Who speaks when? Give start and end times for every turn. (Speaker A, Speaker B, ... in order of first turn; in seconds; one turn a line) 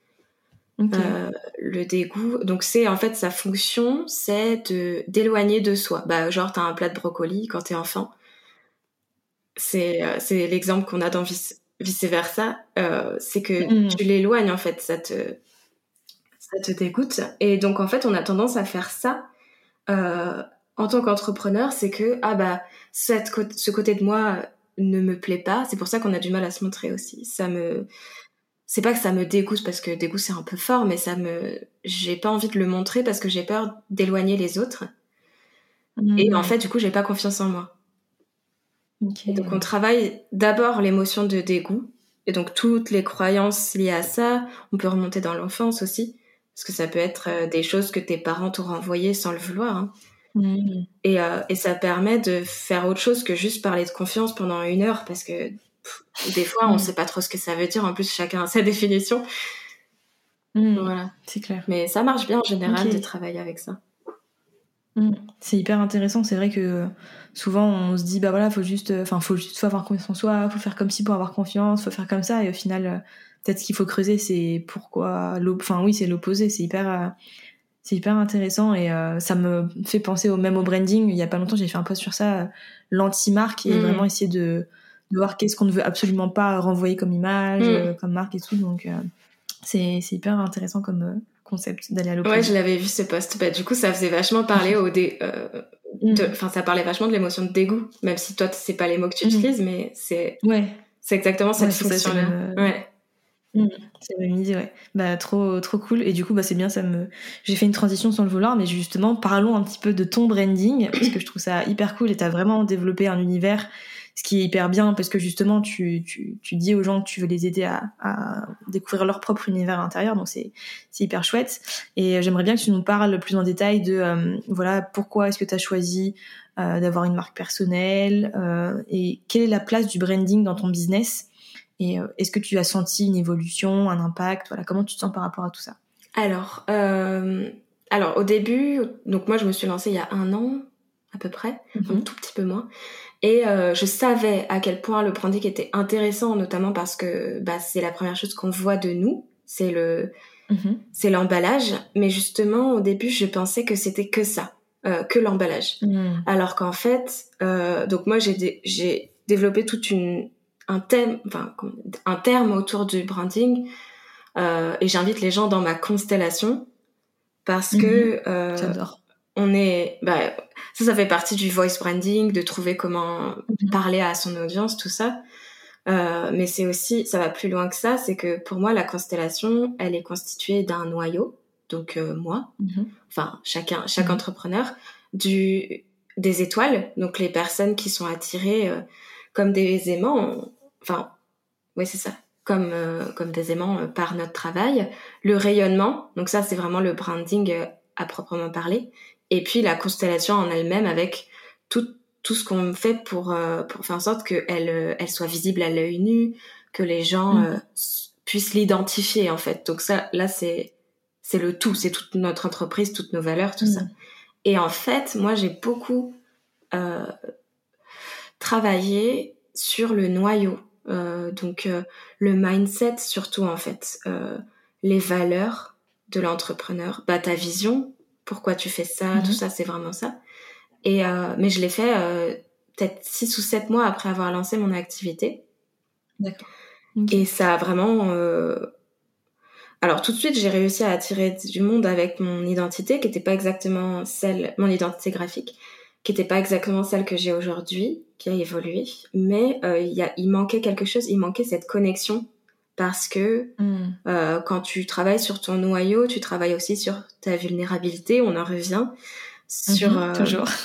Speaker A: 0.8-1.2
Speaker B: 0.9-8.1
Speaker B: 9.6-15.4
Speaker A: 13.6-14.0
Speaker B: 16.4-19.3
Speaker B: 19.9-27.9
Speaker B: 28.7-34.9
Speaker A: 36.0-36.5
Speaker B: 36.2-37.7
Speaker A: 39.0-39.6
Speaker B: 39.3-49.9
Speaker A: 50.4-50.9
Speaker B: 51.0-59.2
Speaker A: 56.7-56.9
Speaker A: 60.5-61.7
Speaker B: 60.8-61.1
Speaker B: 61.7-63.8
Speaker A: 62.7-63.0
Speaker A: 65.0-77.1
Speaker A: 77.8-89.0
Speaker B: 83.7-84.1
Speaker B: 87.6-87.9
Speaker A: 89.6-92.5
Speaker B: 92.2-100.4
Speaker A: 96.0-96.3
Speaker A: 99.2-99.5
Speaker A: 100.4-100.8
Speaker B: 101.0-102.9
Speaker A: 101.6-102.7
Speaker A: 103.5-131.3
Speaker A: 131.8-135.8
Speaker B: 136.2-142.7
Speaker A: 141.8-142.1
Speaker B: 143.2-150.1
Speaker A: 150.5-150.8
Speaker B: 150.9-163.7
Speaker A: 155.8-156.3
Speaker B: 164.4-166.7
Speaker B: 167.4-168.8
Speaker A: 167.7-169.0
Speaker B: 169.3-175.2
Speaker B: 175.9-182.5
Speaker A: 182.6-182.9
Speaker B: 183.1-188.8
Speaker B: 189.3-191.1
Speaker B: 191.8-210.7
Speaker B: 211.2-213.9
Speaker A: 213.6-213.9
Speaker B: 214.4-216.2
Speaker B: 216.7-217.1
Speaker B: 218.4-230.2
Speaker B: 230.8-235.4
Speaker A: 236.2-236.4
Speaker A: 237.0-237.2
Speaker B: 237.1-238.7
Speaker B: 239.8-253.5
Speaker A: 253.6-254.0
Speaker B: 254.1-258.9
Speaker B: 259.5-260.4
Speaker A: 259.7-260.5